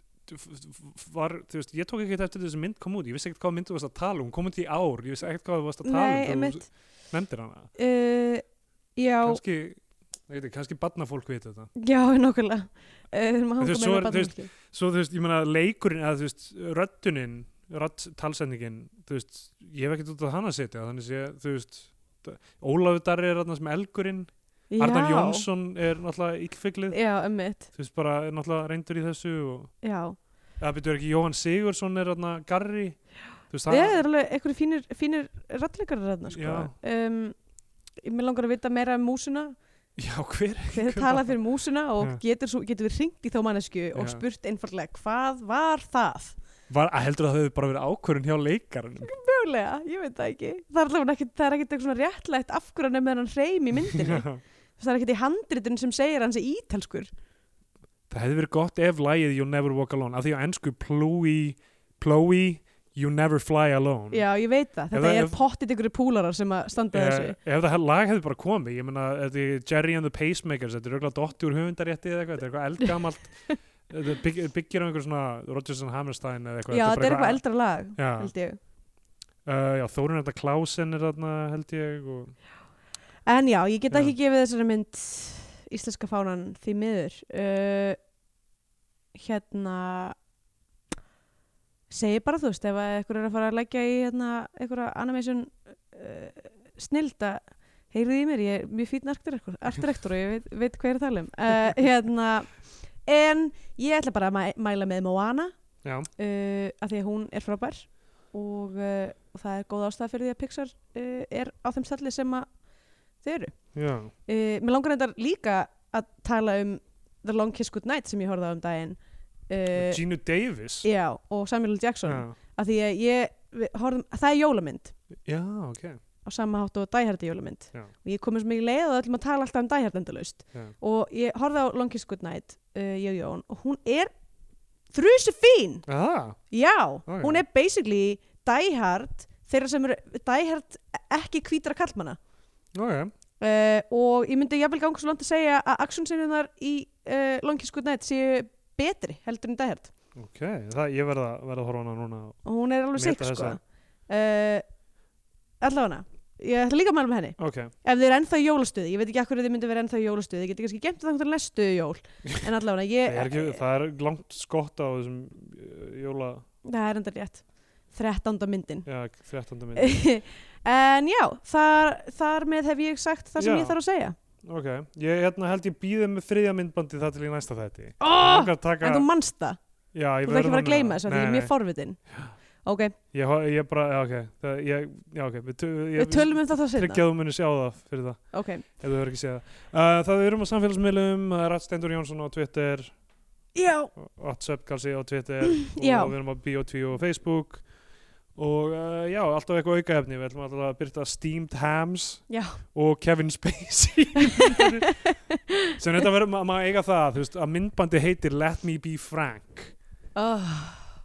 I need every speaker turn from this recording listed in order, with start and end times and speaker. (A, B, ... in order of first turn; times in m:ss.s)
0:00.2-0:07.7 A
0:05.8-0:06.7 B
0:07.8-0:08.4 B
0:09.0-0:09.4 B
0:09.2-0:11.7 A
0:11.8-0:14.5 B
0:13.6-0:27.0 A
0:24.7-0:25.5 B
0:26.9-0:27.7 B
0:27.7-0:29.7 A
0:29.8-0:30.2 B
0:30.6-0:33.0 A
0:33.5-0:34.0 A
0:33.7-0:37.4 B
0:36.3-0:36.7 A
0:38.0-0:39.5 B
0:40.0-0:41.3 A
0:40.7-0:46.4 B
0:43.9-0:44.2 A
0:46.7-0:49.1 A
0:49.0-0:57.1 B
0:53.8-0:54.4 A
0:58.1-1:04.2 A
1:04.1-1:07.4 B
1:04.9-1:05.4 A
1:06.9-1:17.4 A
1:16.7-1:18.6 B
1:17.9-1:18.3 A
1:19.4-1:22.4 A
1:23.2-1:28.0 B
1:23.9-1:24.1 A
1:29.1-1:30.1 B
1:31.9-1:42.5 B
1:43.0-1:45.5 B
1:45.8-1:46.1 A
1:46.2-1:52.5 B
1:53.2-1:53.6 B
1:53.7-1:54.1 A
1:54.3-2:00.0 B
1:59.7-2:00.9 A
2:00.8-2:04.9 B
2:02.0-2:02.3 A
2:05.2-2:06.0 A
2:06.2-2:14.1 B
2:14.9-2:15.8 B
2:15.8-2:16.4 A
2:16.5-2:22.2 B
2:17.0-2:17.4 A
2:22.7-2:23.1 A
2:23.4-2:29.9 B
2:30.1-2:32.4 A
2:32.4-2:34.6 B
2:33.0-2:33.6 A
2:35.6-2:43.6 B
2:37.4-2:37.7 A
2:43.0-2:46.4 A
2:46.6-2:48.8 B
2:48.8-2:50.0 A
2:49.8-2:54.1 B
2:53.4-2:53.8 A
2:54.4-2:59.1 A
2:58.0-2:59.6 B
2:59.9-3:01.5 A
3:00.2-3:02.0 B
3:02.6-3:02.9 B
3:03.1-3:12.9 A
3:05.9-3:07.0 B
3:08.3-3:08.6 B
3:13.6-3:13.9 B
3:14.0-3:17.6 A
3:15.6-3:16.1 B
3:18.3-3:25.0 A
3:22.3-3:22.6 B
3:24.3-3:25.8 B
3:25.8-3:29.7 A
3:30.1-3:30.9 B